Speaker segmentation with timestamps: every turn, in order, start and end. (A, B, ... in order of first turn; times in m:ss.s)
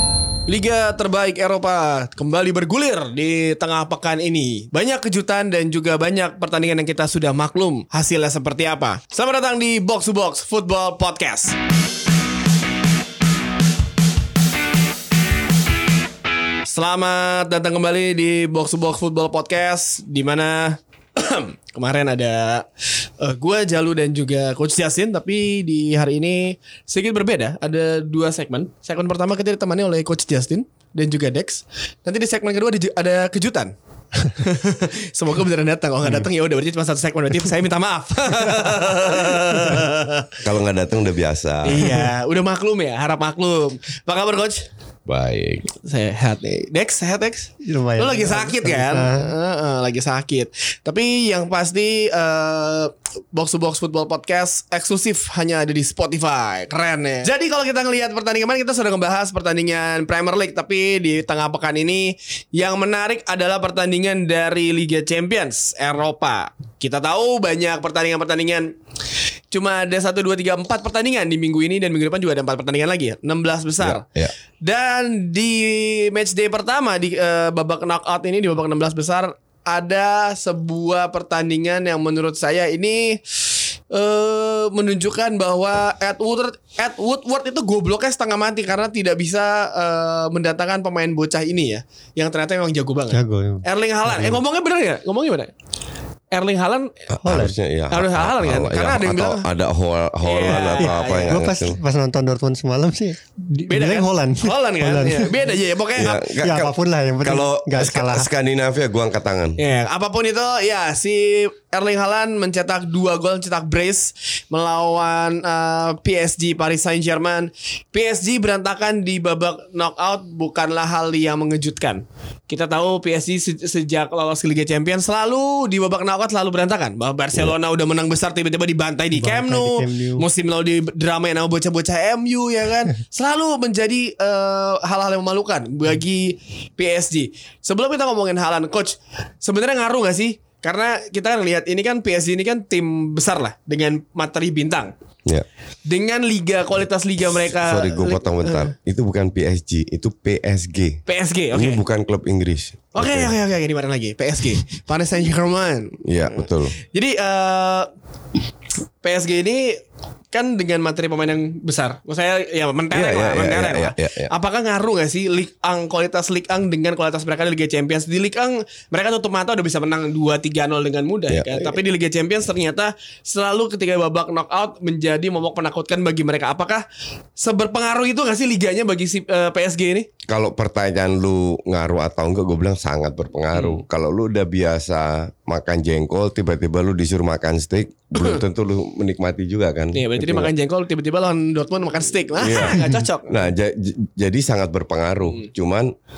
0:00.5-0:11.6 A
0:16.7-0:22.7 A
0:23.2-0:33.7 A
0:34.2-0:40.4 A
0:40.4-0:41.9 B
0:41.6-0:44.7 A
0:45.1-0:45.6 B
0:45.8-1:08.7 A
0:47.6-0:49.3 C
1:09.5-1:14.0 A
1:13.8-1:14.3 B
1:14.6-1:23.2 A
1:23.9-1:35.5 A
1:33.1-1:34.4 C
1:36.3-1:37.0 A
1:37.1-1:41.8 B
1:37.2-1:37.6 C
1:37.9-1:39.4 A
1:40.2-1:41.4 A
1:40.8-1:45.3 C
1:43.7-1:46.2 A
1:46.0-1:46.7 B
1:46.4-1:48.3 C
1:47.2-1:49.6 B
1:49.6-2:24.9 A
2:09.2-2:10.2 C
2:25.9-2:28.7 A
2:27.6-2:33.3 B
2:31.1-2:31.8 A
2:33.0-2:37.9 A
2:36.0-2:36.8 B
2:39.0-2:39.8 A
2:40.3-2:56.8 A
2:42.9-2:44.3 B
2:51.3-2:51.8 B
2:57.4-3:00.1 A
3:00.3-3:10.5 B
3:03.5-3:03.8 A
3:09.9-3:13.4 A
3:12.4-3:15.9 B